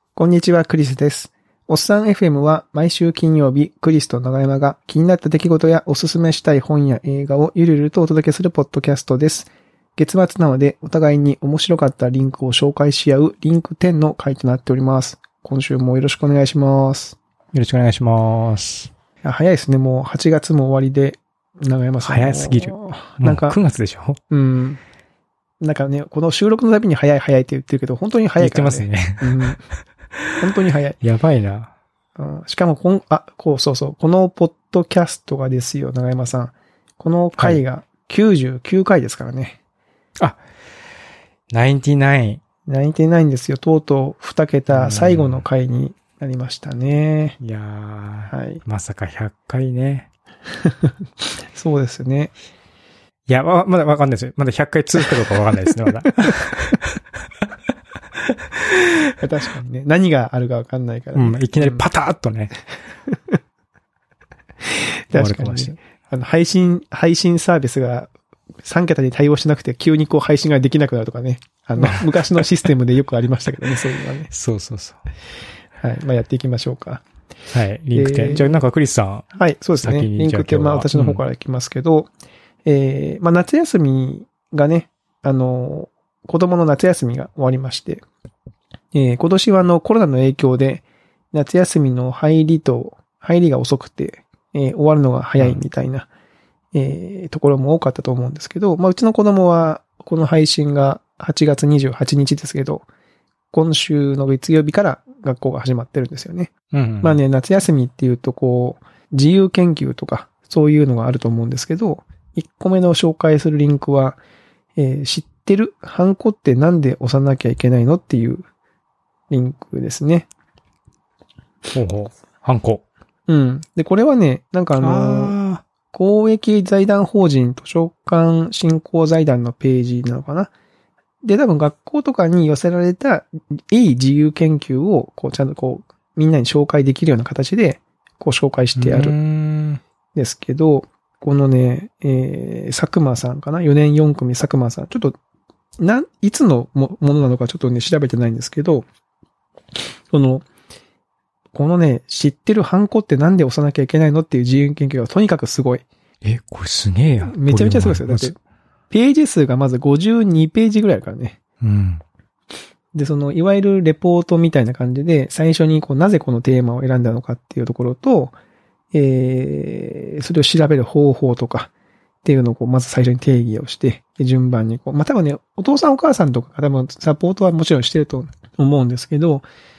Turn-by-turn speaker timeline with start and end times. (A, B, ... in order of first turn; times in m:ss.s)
0:00.2-0:17.2 A
0:17.5-0:18.9 B
0:19.2-0:23.6 A
0:22.0-0:24.2 B
0:24.3-0:24.8 A
0:25.6-0:29.6 A
0:28.4-0:29.6 B
0:30.4-0:31.0 A
0:31.0-0:31.7 B
0:32.2-0:39.6 A
0:41.5-0:42.4 B
0:42.7-0:47.4 A
0:44.7-0:45.4 B
0:47.4-0:50.1 B
0:48.3-0:48.6 A
0:50.6-0:52.3 A
0:53.3-0:57.0 B
0:55.7-0:56.3 A
0:58.3-0:59.1 B
0:59.2-1:01.8 A
1:01.1-1:02.5 B
1:03.1-1:03.4 A
1:04.6-1:08.1 A
1:05.1-1:05.8 B
1:08.6-1:14.3 A
1:11.8-1:12.4 B
1:14.3-1:15.0 B
1:15.8-1:17.0 A
1:17.5-1:19.3 B
1:17.9-1:18.6 A
1:19.3-1:22.1 A
1:19.8-1:21.2 B
1:22.6-1:28.0 A
1:28.9-1:36.1 A
1:36.7-1:42.8 A
1:43.5-1:46.5 A
1:46.7-1:47.2 B
1:47.0-1:54.2 A
1:54.8-1:58.4 A
1:59.3-2:00.3 A
2:01.7-2:02.8 B
2:03.3-2:05.3 A
2:04.8-2:05.6 B
2:05.9-2:10.5 A
2:11.2-2:19.1 A
2:18.7-2:19.8 B
2:20.2-2:25.2 A
2:25.8-2:28.8 A
2:30.1-2:30.4 A
2:31.5-2:35.8 A
2:36.2-2:38.3 B
2:37.2-2:38.4 A
2:38.9-2:41.4 A
2:41.6-2:42.0 B
2:42.9-2:48.3 A
2:48.9-2:51.7 A
2:52.2-2:59.5 A